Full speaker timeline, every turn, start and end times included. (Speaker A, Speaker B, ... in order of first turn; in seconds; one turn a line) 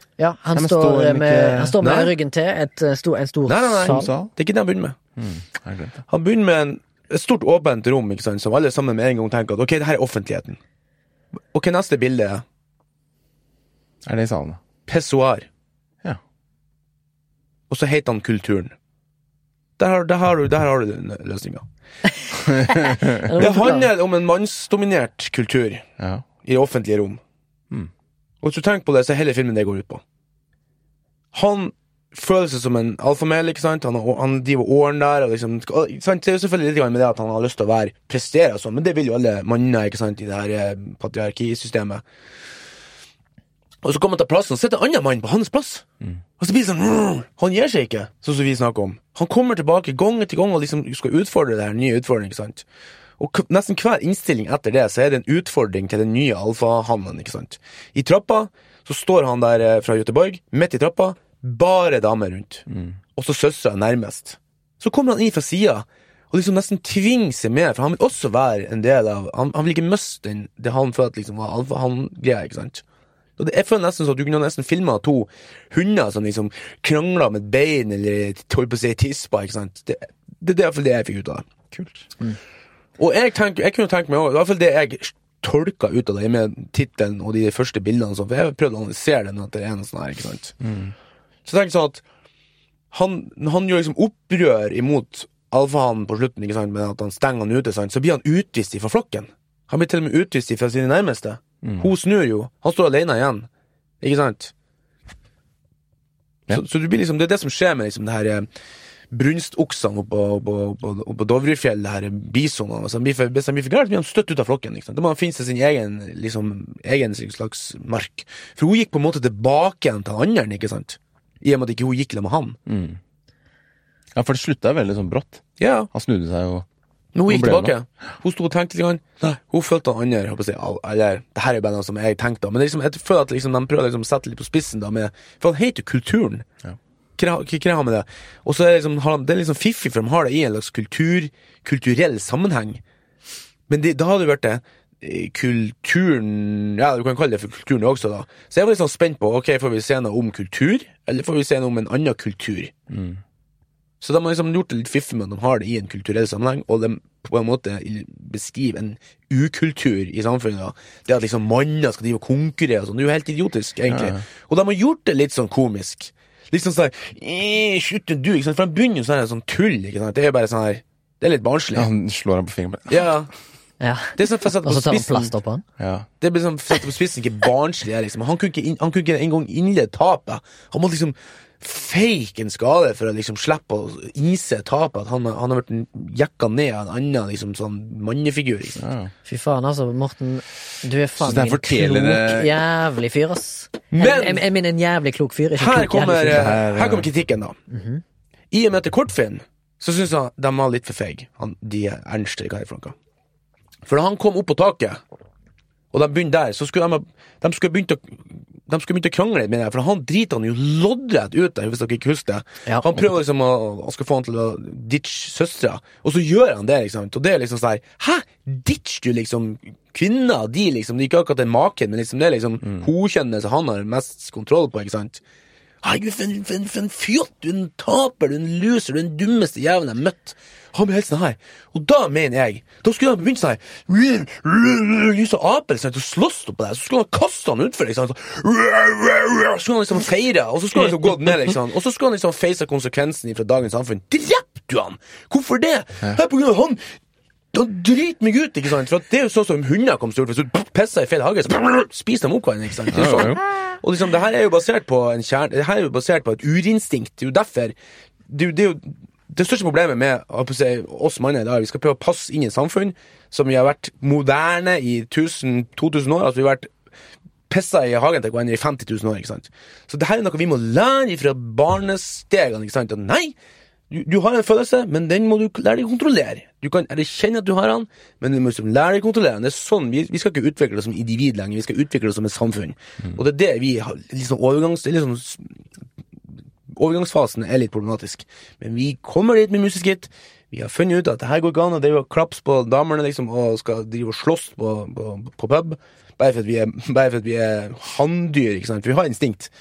Speaker A: 0.2-4.1
Speaker B: 0.5-1.8
Speaker C: 1.8-2.1
Speaker C: 3.5-5.0
Speaker B: 3.9-4.3
Speaker B: 5.2-6.0
Speaker C: 6.1-10.6
Speaker C: 11.5-12.4
Speaker B: 14.0-14.6
Speaker C: 14.9-15.5
Speaker C: 17.7-18.7
Speaker C: 19.8-21.6
Speaker B: 22.4-23.3
Speaker A: 22.5-23.9
Speaker C: 23.4-25.9
Speaker B: 26.0-26.2
Speaker C: 26.4-27.2
Speaker C: 28.4-30.0
Speaker C: 31.3-42.0
Speaker C: 43.8-45.8
Speaker C: 46.4-52.6
Speaker C: 53.2-72.8
Speaker B: 62.7-63.0
Speaker C: 73.4-81.5
Speaker B: 81.7-82.1
Speaker C: 83.0-90.5
Speaker B: 90.6-90.9
Speaker C: 91.4-92.0
Speaker C: 92.9-103.5
Speaker B: 101.6-101.9
Speaker C: 104.0-104.5
Speaker C: 106.5-108.5
Speaker C: 109.1-122.6
Speaker B: 122.7-123.0
Speaker B: 124.1-126.7
Speaker C: 125.6-125.9
Speaker C: 127.1-136.4
Speaker B: 127.3-127.7
Speaker C: 137.2-142.8
Speaker C: 143.7-152.7
Speaker B: 152.9-153.2
Speaker C: 154.0-171.9
Speaker B: 163.9-164.2
Speaker B: 171.7-173.1
Speaker C: 172.9-173.3
Speaker A: 173.8-175.6
Speaker C: 174.2-175.3
Speaker B: 175.8-176.1
Speaker C: 176.2-188.8
Speaker B: 188.8-189.1
Speaker A: 189.2-196.5
Speaker B: 191.2-192.5
Speaker C: 193.9-194.4
Speaker C: 195.6-197.6
Speaker B: 196.3-197.1
Speaker A: 197.7-198.0
Speaker C: 198.5-202.9
Speaker C: 203.8-205.0
Speaker C: 205.9-225.2
Speaker C: 225.8-246.8
Speaker C: 247.5-257.7
Speaker B: 252.9-253.4
Speaker C: 258.3-266.7
Speaker C: 267.5-273.3
Speaker C: 273.9-285.5
Speaker C: 286.7-299.5